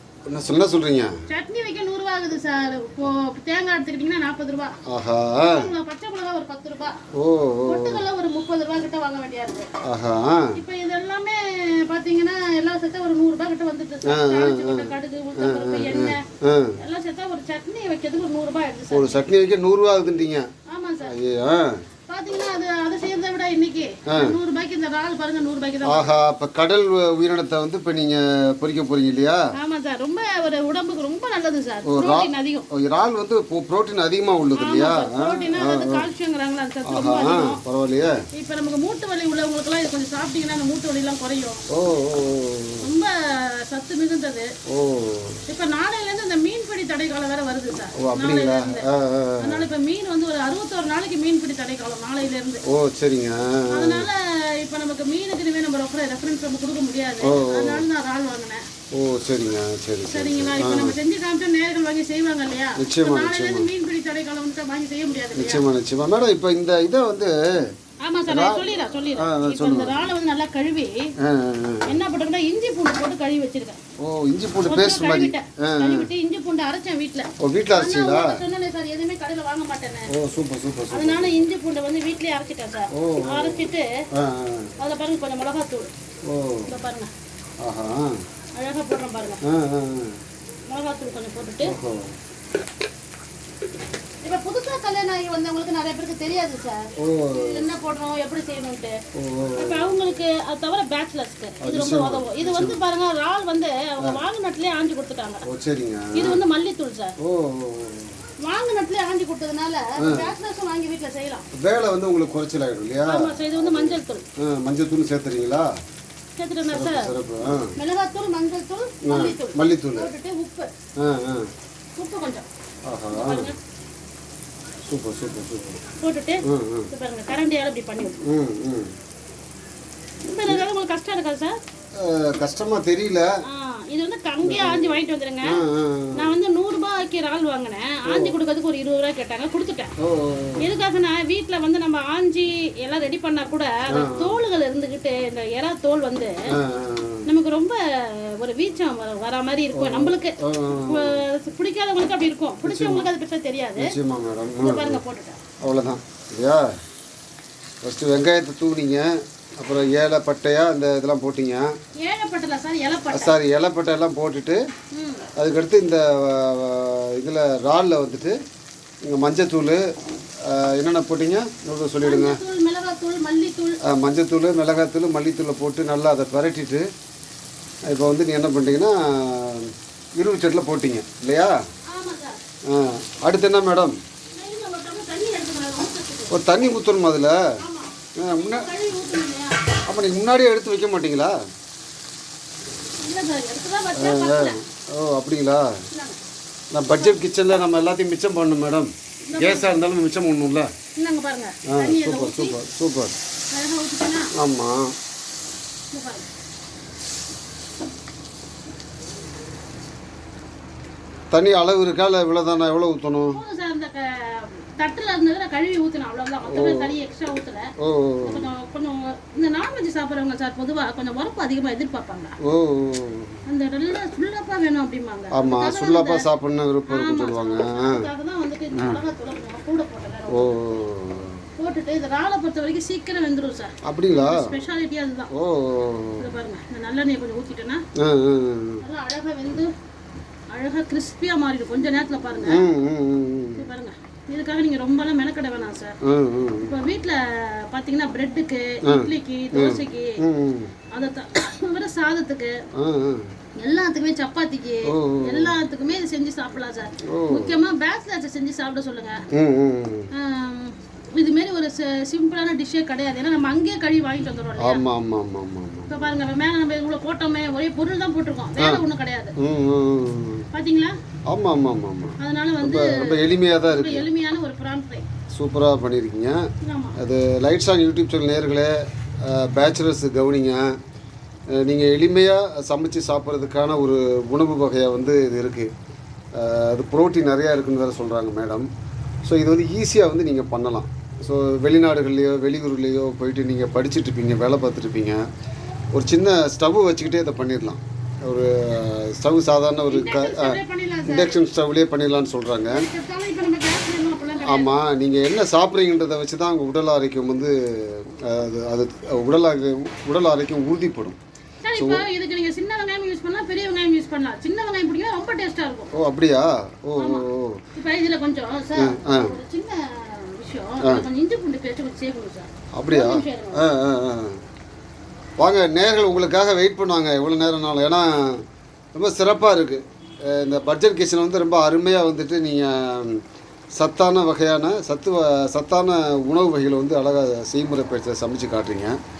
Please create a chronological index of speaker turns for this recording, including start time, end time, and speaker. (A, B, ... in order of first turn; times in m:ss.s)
0:00.3-0:01.2 A
0:01.3-0:04.8 B
0:04.9-0:05.7 A
0:05.4-0:07.0 B
0:07.2-0:08.0 A
0:07.6-0:09.7 B
0:09.8-0:10.6 A
0:10.5-0:16.2 B
0:14.0-0:16.8 A
0:16.8-0:19.3 B
0:18.9-0:20.4 A
0:20.7-0:21.2 B
0:21.0-0:21.8 A
0:22.1-0:26.2 B
0:24.1-0:24.3 A
0:25.8-0:29.5 A
0:29.5-0:32.7 B
0:31.8-0:36.0 A
0:34.6-0:37.6 B
0:36.9-0:38.2 A
0:38.3-0:41.6 B
0:41.7-0:42.9 A
0:42.8-0:44.5 B
0:44.7-0:45.4 A
0:45.5-0:48.8 B
0:48.0-0:49.6 A
0:49.4-0:52.6 B
0:52.7-0:54.1 A
0:53.7-0:58.6 B
0:57.2-0:57.8 A
0:58.9-1:01.0 A
1:00.1-1:05.6 B
1:02.8-1:03.7 A
1:05.3-1:07.7 A
1:08.0-1:11.1 B
1:08.3-1:08.6 A
1:09.2-1:10.1 A
1:11.2-1:11.9 A
1:11.8-1:13.8 B
1:14.0-1:16.1 A
1:14.6-1:20.1 B
1:17.4-1:18.4 A
1:20.1-1:21.4 A
1:20.9-1:23.8 B
1:22.9-1:24.7 A
1:24.8-1:25.9 B
1:26.3-1:26.7 A
1:26.6-1:27.1 B
1:27.6-1:28.1 A
1:28.6-1:29.4 B
1:29.4-1:30.2 A
1:30.7-1:31.7 B
1:31.6-1:32.1 A
1:34.2-1:38.9 B
1:37.0-1:37.7 A
1:39.1-1:39.9 A
1:39.6-1:45.4 B
1:41.6-1:42.8 A
1:45.4-1:46.4 A
1:46.1-1:47.1 B
1:47.2-1:48.2 A
1:48.4-1:51.4 B
1:50.0-1:50.3 A
1:51.6-1:55.7 A
1:53.1-1:54.2 B
1:56.4-1:57.1 B
1:56.6-1:57.7 A
1:57.8-2:00.7 B
1:59.0-2:00.1 A
2:01.0-2:01.5 A
2:02.0-2:02.5 B
2:02.9-2:03.5 A
2:03.1-2:03.6 B
2:04.9-2:05.8 A
2:06.0-2:08.2 B
2:06.4-2:06.9 A
2:08.2-2:08.9 A
2:10.2-2:11.6 B
2:12.0-2:13.3 A
2:13.4-2:15.6 B
2:14.4-2:16.3 A
2:16.1-2:19.9 B
2:18.0-2:18.3 A
2:20.0-2:20.6 A
2:20.6-2:26.4 B
2:23.9-2:24.3 A
2:26.5-2:27.3 A
2:27.3-2:33.9 B
2:29.7-2:31.2 A
2:32.6-2:33.1 A
2:33.8-2:35.0 A
2:34.6-2:35.4 B
2:35.6-2:36.7 A
2:37.8-2:41.7 A
2:42.0-2:43.4 B
2:43.1-2:44.6 A
2:44.9-2:45.2 B
2:45.4-2:48.4 A
2:49.0-2:49.8 A
2:50.4-2:52.4 A
2:52.0-2:53.8 B
2:53.8-2:56.8 A
2:57.9-3:01.6 A
3:01.9-3:02.4 B
3:02.7-3:04.0 A
3:04.3-3:06.8 B
3:06.3-3:07.4 A
3:07.6-3:09.6 B
3:08.2-3:08.7 A
3:09.8-3:11.3 A
3:13.0-3:14.6 B
3:14.0-3:15.7 A
3:15.9-3:16.2 B
3:16.7-3:20.7 A
3:16.9-3:17.4 B
3:19.2-3:19.8 B
3:21.0-3:22.6 B
3:21.7-3:23.1 A
3:23.5-3:24.3 B
3:24.3-3:24.9 A
3:25.9-3:26.3 B
3:31.3-3:33.4 A
3:33.3-3:37.7 B
3:36.5-3:36.9 A
3:37.8-3:38.5 A
3:38.2-3:42.4 B
3:42.4-3:43.4 A
3:43.4-3:46.2 B
3:45.3-3:48.0 A
3:46.9-3:50.8 B
3:48.7-3:49.0 A
3:50.3-3:51.4 A
3:51.6-3:55.3 B
3:53.8-3:54.5 A
3:55.3-3:56.3 A
3:56.2-3:57.8 B
3:58.0-3:58.8 A
3:58.8-3:59.7 B
4:00.5-4:02.6 B
4:02.5-4:03.7 A
4:03.6-4:06.0 B
4:06.0-4:06.7 A
4:06.6-4:10.2 B
4:08.8-4:10.7 A
4:10.9-4:12.6 B
4:12.8-4:13.2 A
4:13.6-4:19.2 B
4:14.9-4:15.5 A
4:17.0-4:17.6 A
4:19.3-4:20.1 A
4:20.1-4:24.8 B
4:24.6-4:26.0 A
4:25.9-4:29.3 B
4:29.4-4:30.4 A
4:30.5-4:31.0 B
4:31.3-4:34.0 A
4:32.2-4:35.0 B
4:35.3-4:36.4 A
4:36.6-4:37.0 B
4:37.0-4:40.8 A
4:41.6-4:45.7 A
4:46.4-4:48.7 A
4:49.2-4:55.2 A
4:55.9-5:02.8 A
4:59.9-5:01.4 B
5:02.7-5:04.7 B
5:04.4-5:11.2 A
5:11.6-5:15.9 B
5:11.8-5:12.0 A
5:15.9-5:17.6 A
5:17.0-5:23.6 B
5:18.8-5:19.4 A
5:22.7-5:24.4 A
5:25.4-5:33.2 A
5:33.8-5:39.0 A